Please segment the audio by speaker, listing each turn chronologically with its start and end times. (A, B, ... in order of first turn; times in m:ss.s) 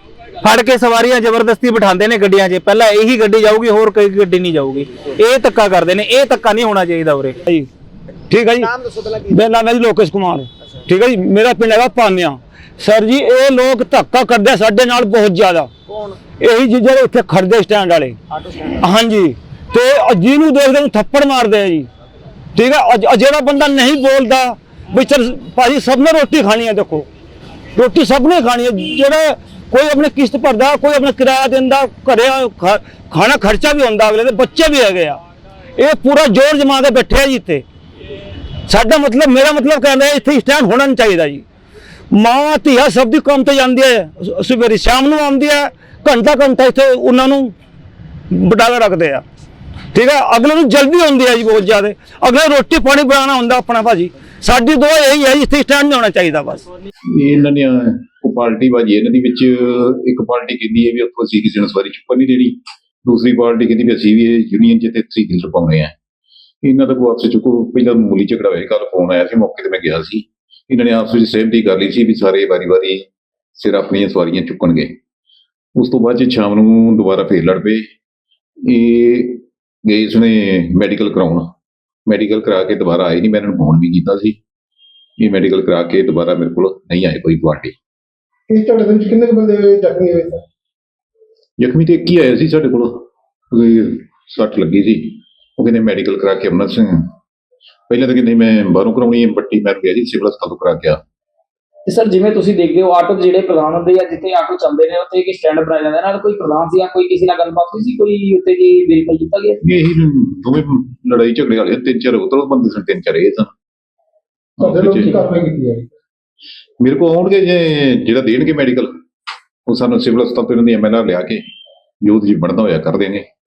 0:00.4-0:07.4 A
0:08.3-0:08.7 B
0:09.3-0:15.7 B
0:16.4-0:18.2 B
0:18.8-0:21.9 B
0:22.6-0:27.1 B
0:27.8-0:35.2 B
0:35.8-0:37.6 B
0:38.7-0:41.4 B
0:42.1-0:47.5 B
0:48.3-0:49.2 B
0:49.9-0:56.6 B
0:57.1-1:05.9 C
1:06.6-1:15.0 C
1:15.8-1:17.9 C
1:18.6-1:21.5 C
1:22.1-1:24.4 C
1:25.2-1:27.7 C
1:28.5-1:30.4 D
1:31.6-1:37.1 C
1:37.9-1:41.0 C
1:41.9-1:49.6 E
1:49.6-1:53.5 C
1:54.6-1:55.3 C
1:54.6-1:55.9 D
1:56.8-1:58.9 C
1:59.7-2:01.4 C
2:02.0-2:03.3 C